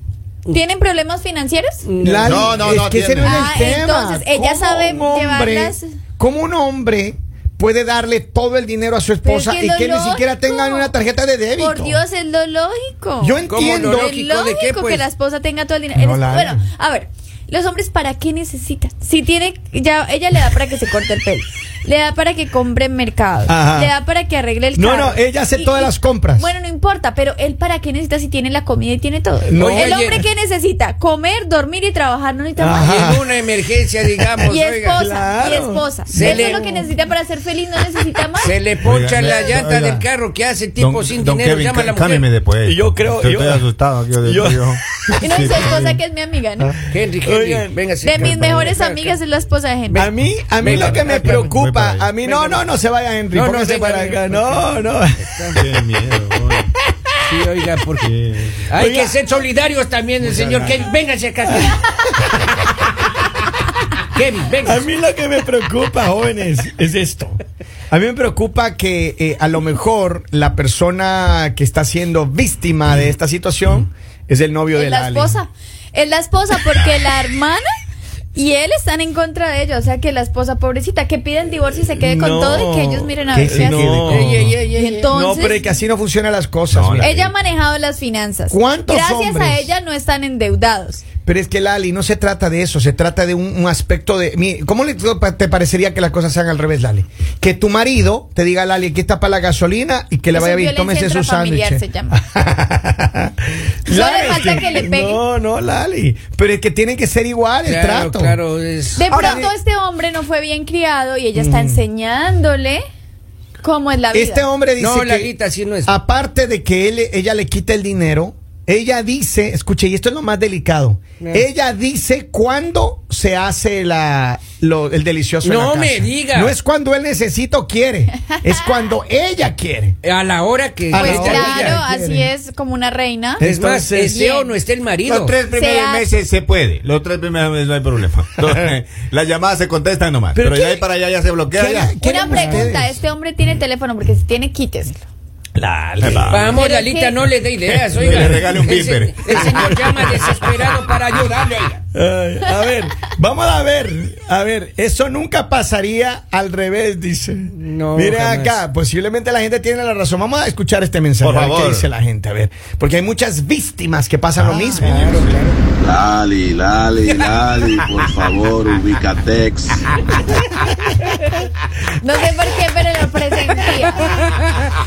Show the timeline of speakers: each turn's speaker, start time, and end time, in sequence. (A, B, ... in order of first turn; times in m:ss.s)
0:00.5-0:01.8 A
0:01.8-0:02.5 B
0:02.0-0:12.0 C
0:02.2-0:03.5 D
0:03.2-0:05.9 A
0:09.2-0:10.9 A
0:11.6-0:13.4 A
0:13.2-0:14.2 C
0:13.5-0:15.0 B
0:14.0-0:33.0 A
0:16.0-0:16.7 C
0:23.5-0:24.0 C
0:24.8-0:26.5 C
0:29.4-0:30.0 C
0:29.5-0:30.2 B
0:32.6-0:33.3 C
0:32.8-0:35.0 B
0:34.3-0:36.7 C
0:34.5-0:38.6 A
0:36.1-0:36.9 B
0:38.4-0:42.3 B
0:38.8-0:40.0 D
0:40.8-0:46.0 D
0:42.6-0:43.7 C
0:44.2-0:45.6 C
0:45.2-0:46.8 A
0:46.6-0:48.6 C
0:46.9-0:49.2 B
0:48.0-0:50.1 A
0:49.9-0:51.5 B
0:50.0-0:55.3 C
0:50.6-0:52.1 D
0:52.2-0:52.7 B
0:53.3-0:55.6 B
0:55.6-0:56.7 D
0:57.2-0:58.1 B
0:58.0-0:58.6 D
0:58.7-1:01.8 B
0:58.8-0:59.2 C
1:00.2-1:00.7 D
1:01.5-1:02.3 C
1:04.1-1:04.8 B
1:04.6-1:15.4 C
1:14.7-1:17.6 A
1:18.4-1:24.1 A
1:22.0-1:24.6 C
1:23.3-1:24.3 D
1:24.1-1:25.4 B
1:24.6-1:25.7 A
1:25.1-1:27.1 C
1:26.7-1:27.3 D
1:27.0-1:31.0 A
1:28.5-1:29.7 C
1:31.2-1:48.4 C
1:40.3-1:42.2 A
1:43.9-1:45.2 A
1:47.6-1:49.1 B
1:49.0-1:52.8 A
1:49.1-1:49.5 C
1:49.1-1:49.4 D
1:51.4-1:51.8 C
1:53.6-1:54.4 A
1:54.1-1:55.3 C
1:54.8-1:56.0 B
1:55.8-2:10.0 C
2:01.2-2:01.5 B
2:05.4-2:06.6 B
2:08.3-2:08.6 A
2:10.0-2:11.8 B
2:10.9-2:12.3 C
2:11.0-2:13.4 A
2:13.4-2:14.2 C
2:13.4-2:15.4 B
2:14.0-2:14.5 A
2:15.0-2:22.6 D
2:15.5-2:16.1 A
2:20.4-2:20.8 C
2:21.5-2:23.0 C
2:22.0-2:25.0 A
2:25.6-2:26.6 C
2:26.0-2:26.6 D
2:26.3-2:31.8 B
2:26.5-2:27.2 A
2:27.9-2:29.5 D
2:28.1-2:28.6 C
2:29.3-2:30.4 C
2:31.9-2:45.1 C
2:37.5-2:38.6 B
2:41.2-2:41.9 D
2:44.4-2:45.4 D
2:44.8-2:45.6 B
2:45.8-2:49.8 E
2:52.0-2:54.2 A
2:54.0-2:54.7 B